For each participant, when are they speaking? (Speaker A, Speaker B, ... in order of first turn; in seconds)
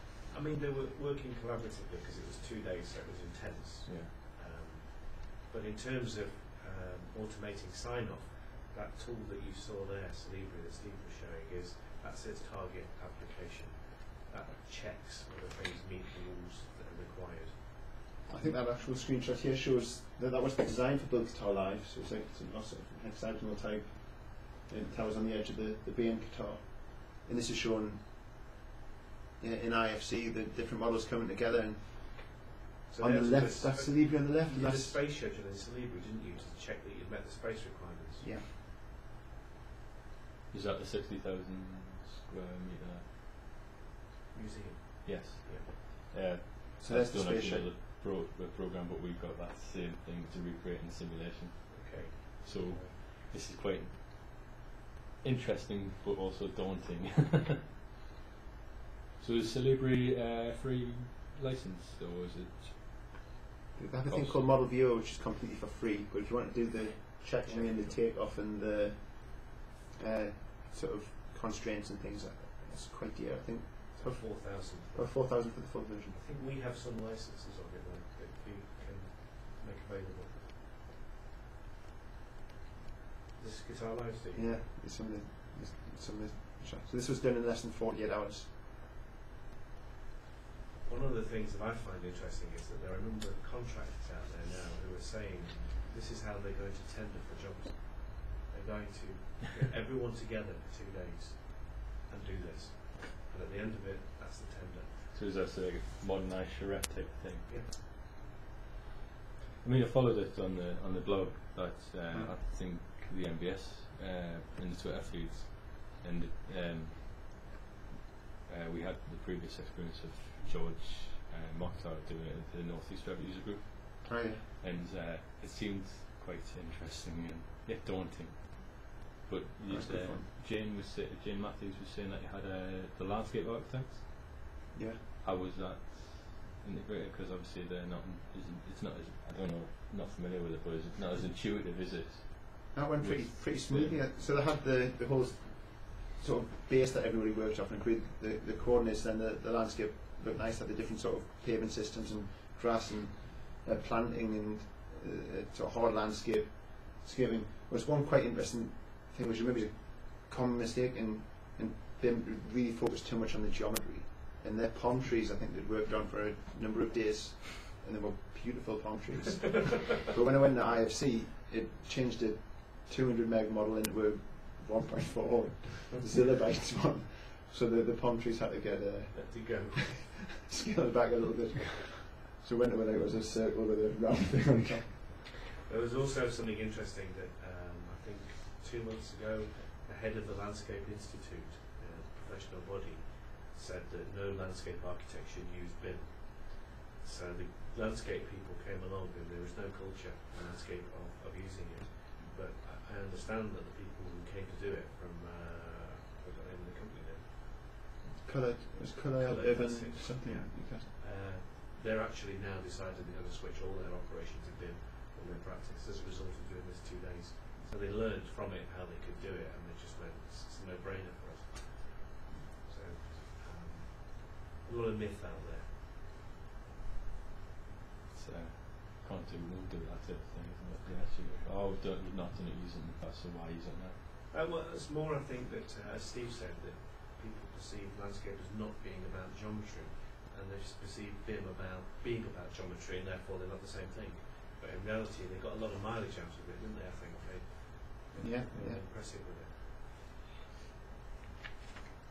Speaker A: 0.3-17.6, 32.9-38.4, 44.3-45.7, 51.7-53.1, 67.4-68.0, 73.9-80.5, 83.4-84.6, 90.8-105.1, 107.5-107.8, 179.1-180.3, 185.7-207.3, 209.1-225.8, 230.8-231.5, 234.3-249.7
Speaker B: 3.9-4.1, 40.5-43.1, 45.0-54.0, 55.2-57.6, 59.2-63.3, 64.1-64.5, 105.1-107.5, 109.6-117.4, 118.5-134.6, 135.2-144.0, 228.1-234.0
Speaker C: 18.3-28.1, 29.4-32.4, 33.0-35.0, 38.2-38.5, 46.8-47.7, 63.8-76.2, 84.3-88.5, 112.1-112.4, 124.0-124.5, 129.7-130.3, 134.7-135.0, 142.7-185.2, 208.2-210.9, 248.2-248.8